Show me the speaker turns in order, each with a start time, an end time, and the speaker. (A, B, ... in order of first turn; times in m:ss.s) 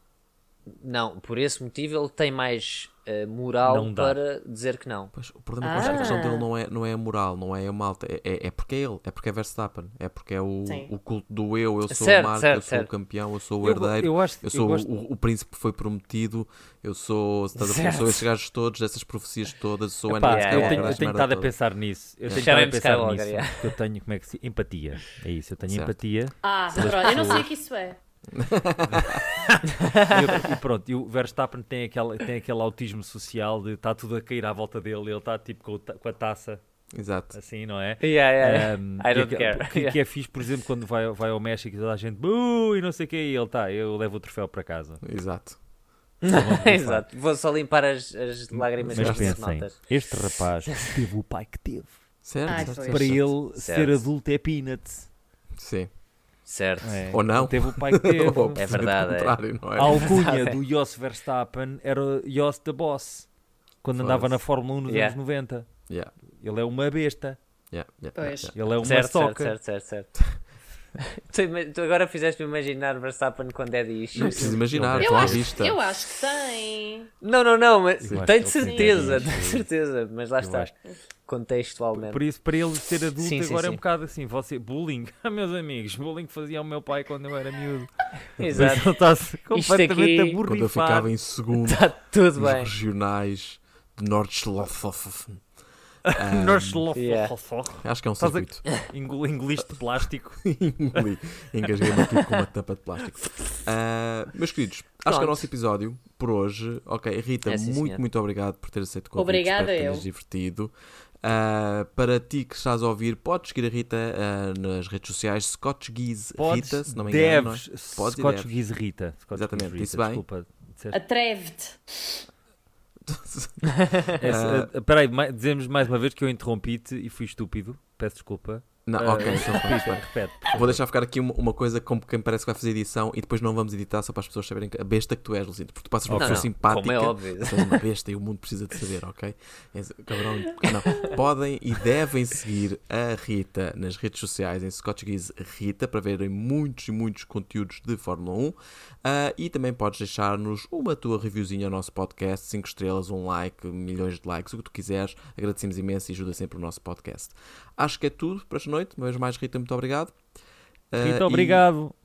0:00.7-0:05.1 A
0:03.6-0:04.2 B
0:05.1-0:21.5 C
0:05.6-0:06.5 D
0:05.8-0:06.2 B
0:10.7-0:10.9 D
0:11.9-0:12.9 A
0:13.6-0:14.9 B
0:17.6-0:18.2 A
0:20.1-0:27.5 B
0:20.2-0:21.0 A
0:22.3-0:23.7 A
0:25.7-0:26.0 C
0:26.4-0:28.0 D
0:26.8-0:27.3 C
0:28.3-0:29.2 C
0:28.8-0:36.6 B
0:29.8-0:30.3 A
0:36.9-0:37.4 C
0:37.3-0:45.0 B
0:38.0-0:40.0 A
0:45.0-0:45.6 C
0:46.2-0:49.9 A
0:46.3-0:47.1 B
0:48.8-0:52.0 B
0:48.9-0:49.4 C
0:50.7-0:51.0 A
0:52.2-0:53.3 C
0:52.5-0:53.2 D
0:52.5-0:55.1 B
0:53.6-0:54.1 A
0:55.6-0:55.9 C
0:56.5-0:57.0 A
0:56.8-0:58.7 B
0:57.1-1:00.2 C
0:58.6-1:00.6 A
0:59.8-1:03.3 B
1:03.8-1:05.7 B
1:04.0-1:04.4 C
1:04.9-1:05.2 A
1:06.4-1:07.4 B
1:07.7-1:08.6 C
1:08.2-1:08.5 D
1:08.5-1:09.6 B
1:08.8-1:10.2 A
1:11.0-1:15.4 A
1:14.1-1:15.8 C
1:14.3-1:15.4 B
1:15.0-1:17.1 D
1:17.2-1:22.2 A
1:18.0-1:18.4 C
1:18.1-1:19.7 B
1:18.6-1:19.2 D
1:19.0-1:19.3 C
1:20.4-1:20.7 B
1:22.0-1:31.1 B
1:23.2-1:23.8 A
1:28.4-1:30.4 A
1:30.4-1:35.4 C
1:31.6-1:32.7 A
1:36.1-1:40.4 B
1:36.1-1:36.8 C
1:37.0-1:37.3 A
1:37.8-1:38.7 C
1:40.4-1:58.6 C
1:45.1-1:45.5 A
1:47.4-1:48.0 A
1:49.2-1:50.0 D
1:56.4-2:01.0 B
1:59.3-2:00.2 C
2:00.9-2:02.2 D
2:03.0-2:04.7 C
2:03.8-2:04.0 A
2:04.2-2:10.8 B
2:08.9-2:40.2 C
2:16.0-2:16.5 B
2:16.1-2:17.8 A
2:40.9-2:41.7 C
2:41.0-2:41.9 B